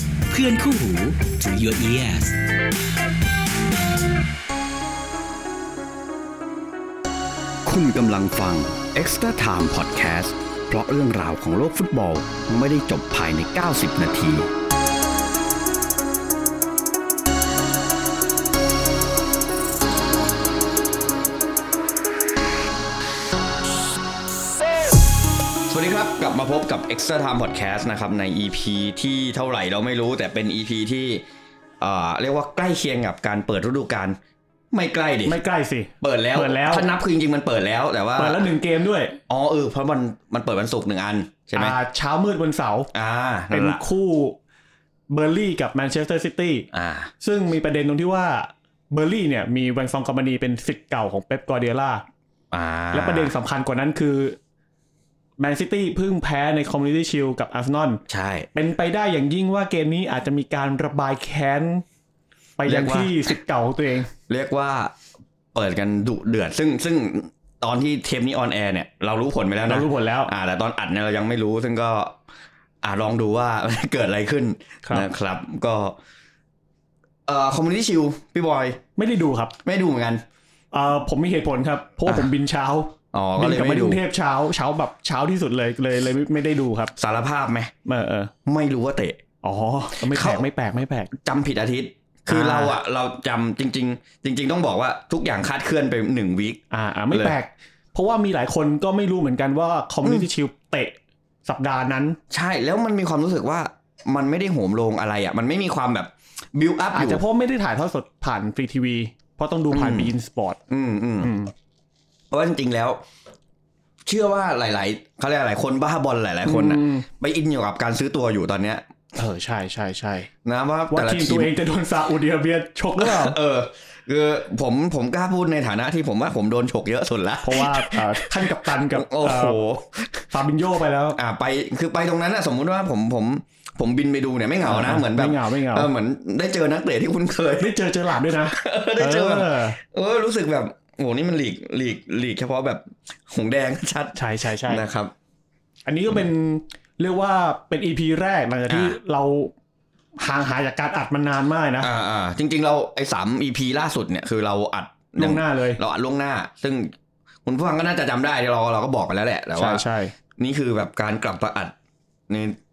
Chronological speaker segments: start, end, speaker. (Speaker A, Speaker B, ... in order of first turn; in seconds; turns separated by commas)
Speaker A: 0.3-2.4, Speaker B: 7.6-14.5, Speaker B: 25.7-31.2, Speaker B: 31.8-34.2, Speaker B: 34.7-35.4, Speaker C: 35.2-36.9, Speaker B: 36.0-38.5, Speaker C: 38.1-39.2, Speaker B: 39.3-41.8, Speaker C: 41.5-42.9, Speaker B: 42.9-43.8, Speaker C: 43.5-44.4, Speaker C: 45.1-46.7, Speaker B: 46.7-47.1, Speaker C: 47.2-52.0, Speaker B: 52.5-53.3, Speaker C: 52.9-54.4, Speaker C: 55.4-58.0, Speaker B: 58.1-58.5, Speaker C: 58.5-61.8, Speaker C: 62.6-64.1, Speaker B: 62.6-63.3, Speaker B: 64.3-64.9, Speaker B: 65.5-72.2, Speaker C: 69.7-70.3, Speaker B: 72.8-76.0, Speaker B: 77.3-78.8, Speaker C: 79.0-79.5, Speaker B: 79.6-80.2, Speaker C: 80.7-86.9, Speaker B: 83.1-84.0, Speaker B: 87.0-87.7, Speaker C: 87.8-88.3, Speaker B: 88.5-89.2, Speaker C: 89.4-91.1, Speaker B: 90.0-90.4, Speaker B: 91.2-97.3, Speaker C: 92.3-92.8, Speaker C: 96.7-102.2, Speaker B: 100.0-100.3, Speaker B: 102.3-107.2, Speaker C: 106.9-110.6, Speaker B: 109.7-110.1, Speaker B: 110.7-111.3, Speaker C: 111.2-111.5, Speaker B: 112.3-113.0, Speaker B: 114.0-118.8, Speaker C: 116.5-117.1, Speaker C: 119.2-120.3, Speaker B: 120.4-121.5, Speaker C: 120.9-123.4, Speaker B: 123.0-130.3, Speaker C: 127.4-129.6, Speaker C: 130.3-131.2, Speaker B: 131.1-137.8, Speaker C: 134.6-135.9, Speaker C: 137.6-139.8, Speaker B: 138.3-145.1, Speaker C: 144.1-144.8, Speaker C: 145.8-149.5, Speaker B: 148.7-149.0, Speaker C: 150.2-151.9, Speaker B: 151.8-156.9, Speaker C: 155.2-155.8, Speaker B: 157.4-159.8, Speaker C: 159.6-160.1, Speaker B: 160.4-161.7, Speaker B: 162.3-162.6